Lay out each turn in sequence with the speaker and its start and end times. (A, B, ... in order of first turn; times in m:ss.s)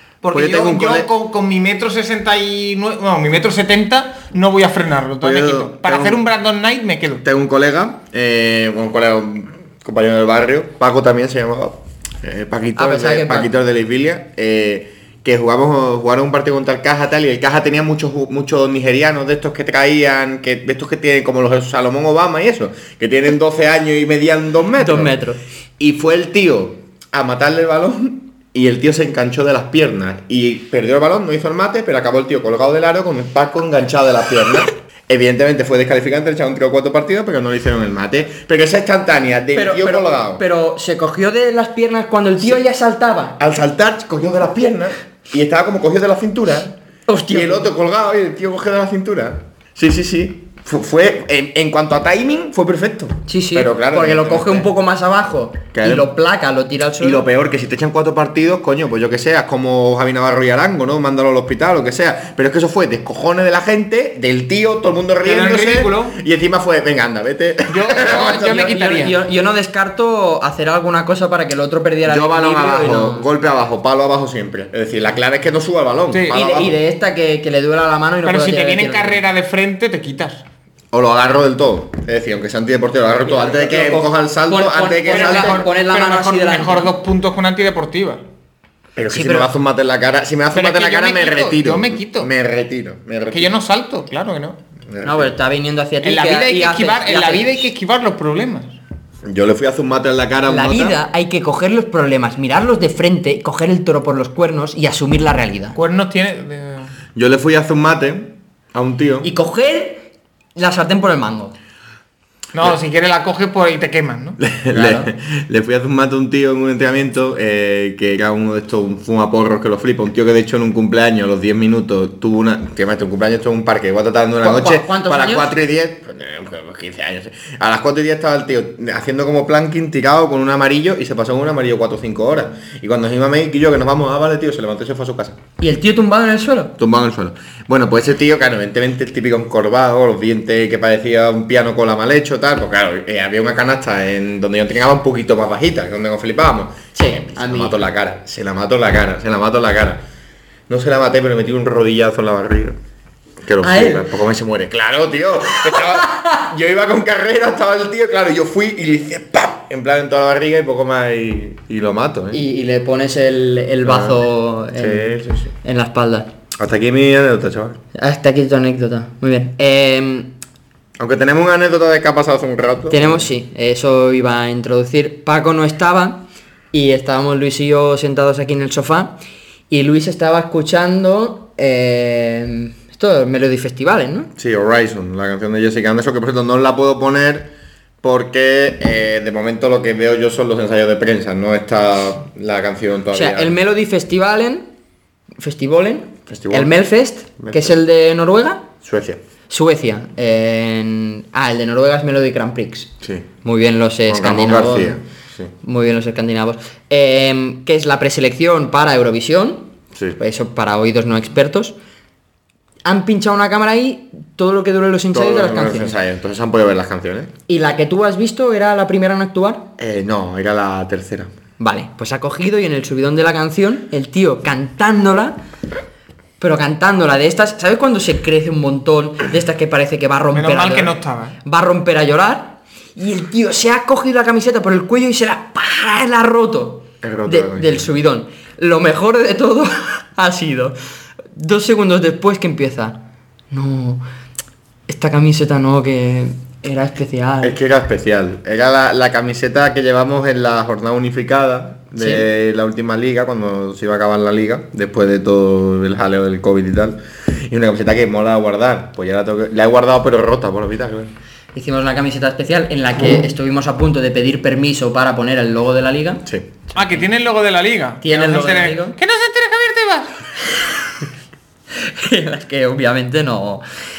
0:00.2-0:07.2 A
0:00.3-0:01.1 B
0:05.2-0:06.2 B
0:07.2-0:25.2 B
0:12.8-0:13.5 C
0:24.8-0:25.4 C
0:25.8-0:40.4 B
0:39.5-0:43.4 C
0:43.4-0:46.8 B
0:47.1-0:47.7 C
0:47.3-0:54.7 B
0:53.3-0:57.2 C
0:55.7-0:56.1 B
0:57.0-1:08.7 B
1:05.2-1:06.2 A
1:07.7-1:09.2 A
1:08.1-1:13.3 C
1:12.0-1:16.8 B
1:16.1-1:16.4 A
1:16.3-1:19.2 C
1:18.2-1:20.4 A
1:20.9-1:25.6 B
1:23.3-1:26.9 C
1:25.1-1:28.2 A
1:29.0-1:33.5 B
1:29.1-1:29.5 C
1:30.5-1:32.3 A
1:33.3-1:34.6 A
1:34.9-1:35.4 B
1:35.0-1:37.6 C
1:36.0-1:38.8 A
1:39.2-1:41.0 B
1:40.5-1:45.8 C
1:45.7-1:46.9 A
1:47.1-1:49.3 B
1:49.2-1:51.5 C
1:52.5-1:54.4 A
1:54.4-2:15.4 B
1:54.7-1:55.1 C
2:04.4-2:05.5 C
2:15.6-2:16.7 C
2:16.8-2:30.0 B
2:26.9-2:27.8 C
2:30.7-2:32.8 B
2:33.4-2:42.4 B
2:33.6-2:34.1 C
2:42.3-2:46.3 C
2:43.8-2:44.2 B
2:44.8-2:45.5 B
2:46.6-2:47.8 B
2:47.9-2:50.3 C
2:51.0-2:53.3 B
2:52.9-2:59.1 C
2:59.7-3:04.3 C
3:04.4-3:13.6 B
3:13.1-3:14.7 C
3:15.4-3:18.7 C
3:16.3-3:16.7 B
3:17.4-3:17.7 B
3:18.8-3:19.2 B
3:19.5-3:22.9 C
3:23.0-3:23.3 B
3:23.4-3:25.0 C
3:24.1-3:25.5 B
3:25.6-3:31.8 C
3:32.8-3:36.0 C
3:35.1-3:37.3 B
3:37.5-3:39.7 C
3:39.8-3:41.3 B
3:41.6-3:45.4 C
3:46.4-4:00.7 C
3:50.3-3:51.4 A
3:57.0-3:57.9 B
4:01.3-4:03.0 C
4:03.5-4:04.0 C
4:04.9-4:07.6 C
4:07.4-4:21.1 B
4:12.0-4:12.2 C
4:21.5-4:27.0 C
4:26.7-4:30.2 A
4:28.0-4:29.0 C
4:31.7-4:33.6 C